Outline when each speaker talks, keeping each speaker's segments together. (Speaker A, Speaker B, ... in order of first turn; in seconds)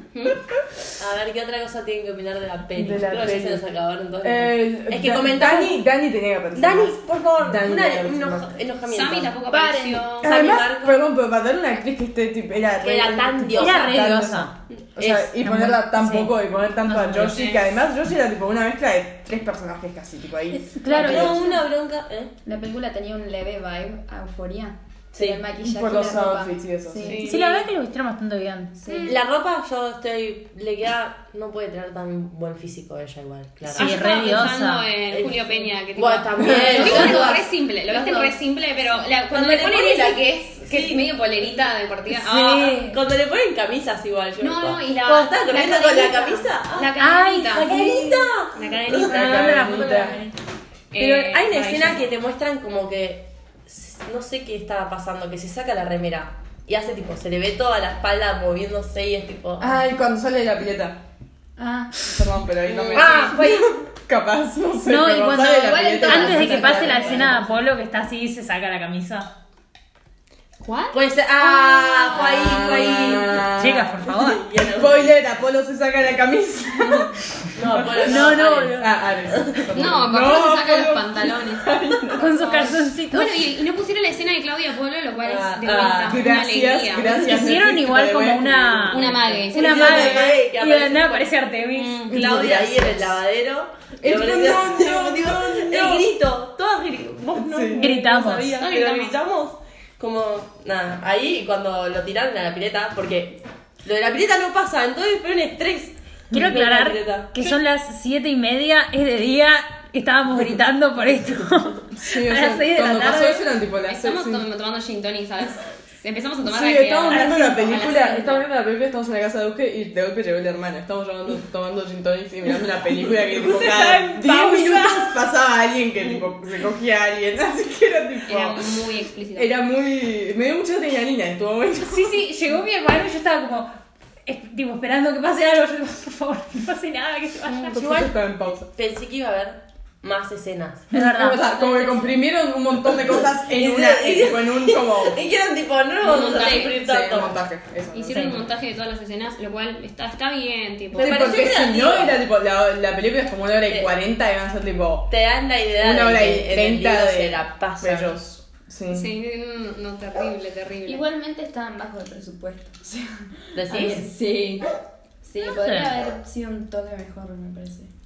Speaker A: 0.1-0.4, 8.9-10.3, 17.2-17.6, 27.0-27.6, 28.9-29.1, 33.8-42.8, 44.4-47.7, 48.5-50.3, 50.9-52.1, 62.7-63.3, 70.6-71.0, 72.0-72.3, 79.8-87.3, 88.9-90.3, 91.7-92.3, 98.6-99.2, 113.8-118.5, 128.3-129.5, 146.0-146.8, 147.9-151.4, 158.9-161.1
Speaker B: 1.0-5.9, 6.5-9.3, 10.2-11.0, 12.8-14.1, 14.8-15.3, 20.9-22.3, 25.1-25.4, 29.0-34.5, 35.1-38.3, 39.3-41.5, 42.3-46.9, 47.5-49.6, 51.0-59.8, 62.9-63.7, 70.9-75.1, 77.5-79.7, 85.2-86.3, 89.5-91.3, 92.1-107.5, 137.5-140.9, 143.1-147.4, 150.9-152.2, 153.7-153.9, 155.1-158.2, 163.5-164.1
Speaker C: 2.8-3.6, 4.2-8.6, 10.2-21.4, 25.6-27.2, 36.5-36.8, 49.0-50.2, 59.6-61.0, 62.0-67.4, 72.1-74.0, 74.8-82.4, 85.8-89.5, 92.1-93.2, 94.0-96.1, 97.4-97.9, 111.9-114.5, 116.5-128.7, 129.4-132.2, 137.7-138.7, 140.9-145.2, 146.1-148.4, 150.9-155.1, 155.8-159.1
Speaker D: 9.5-10.2, 20.9-21.6, 22.4-27.5, 28.8-29.1, 36.7-37.4, 61.6-62.0, 65.4-67.5, 160.9-164.6, 165.2-167.9
Speaker E: 13.6-14.5, 15.4-16.3, 16.9-17.6, 20.8-21.4, 27.2-28.8, 33.7-34.9, 42.2-43.0, 47.0-48.2, 49.1-50.3, 64.8-69.3, 73.5-74.5, 78.0-78.9, 82.2-83.4, 87.1-92.2, 97.8-98.6, 106.3-113.5, 117.2-117.6, 123.3-125.2, 131.8-133.7, 134.2-137.8, 140.9-141.7, 148.1-148.4, 165.5-166.0